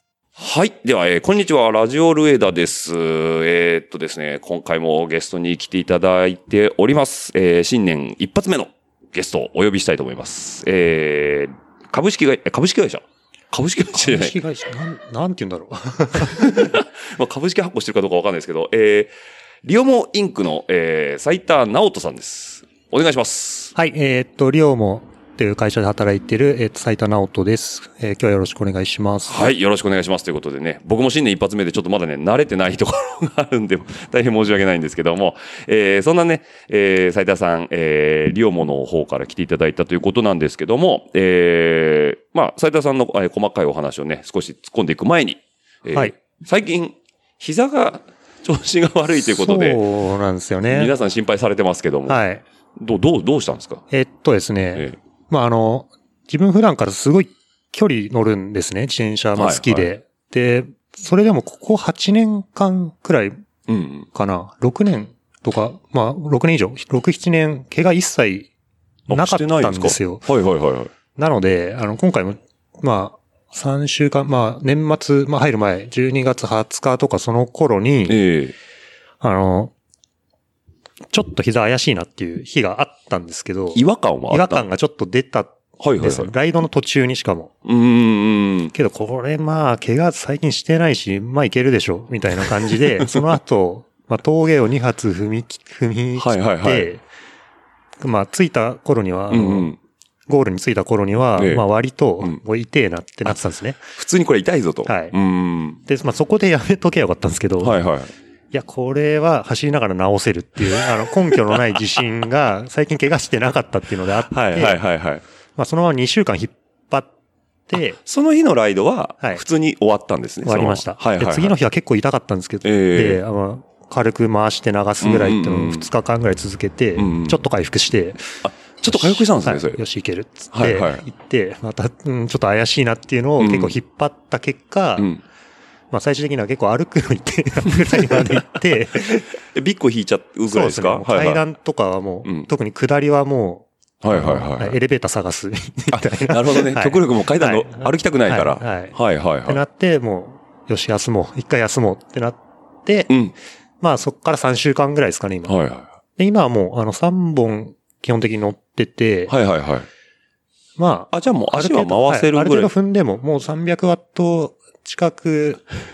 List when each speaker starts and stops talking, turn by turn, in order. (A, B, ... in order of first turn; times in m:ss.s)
0:00.4-0:14.4 A
0:13.9-0:16.5 B
0:16.1-0:23.7 A
0:23.8-0:29.4 B
0:29.3-0:49.8 A
0:49.2-0:50.9 B
0:50.7-0:52.2 A
0:52.1-0:52.4 B
0:52.8-0:53.8 A
0:53.9-1:03.4 B
0:59.4-0:59.9 A
1:03.7-1:04.1 A
1:04.1-1:08.5 B
1:09.1-1:10.9 A
1:09.1-1:10.2 B
1:11.2-1:18.2 B
1:18.0-1:18.6 A
1:19.2-1:19.7 B
1:21.1-1:27.5 B
1:23.7-1:24.6 A
1:25.8-1:26.3 A
1:27.6-1:28.7 A
1:28.7-1:37.0 B
1:32.6-1:33.3 A
1:36.2-1:36.9 A
1:38.0-1:39.7 B
1:39.3-1:39.8 A
1:40.3-1:43.8 B
1:41.4-1:41.6 A
1:43.9-1:45.8 A
1:44.9-1:45.2 B
1:45.9-1:47.8 B
1:47.6-1:48.1 A
1:48.5-1:54.8 B
1:51.3-1:51.6 A
1:54.3-1:55.2 A
1:55.6-1:57.1 B
1:57.7-1:58.0 B
1:58.0-2:01.6 A
2:00.4-2:15.1 B
2:02.6-2:03.2 A
2:05.0-2:05.9 A
2:07.0-2:07.4 A
2:08.4-2:09.8 A
2:10.5-2:11.0 A
2:13.4-2:13.8 A
2:15.0-2:15.2 A
2:15.9-2:19.3 B
2:17.7-2:18.4 A
2:18.9-2:21.4 A
2:20.5-2:33.1 B
2:22.2-2:22.5 A
2:24.0-2:24.8 A
2:25.9-2:29.6 A
2:33.1-2:33.4 A
2:33.8-2:35.6 B
2:35.5-2:35.9 A
2:36.2-2:39.3 B
2:39.3-2:39.9 A
2:40.8-2:45.6 B
2:41.1-2:42.7 A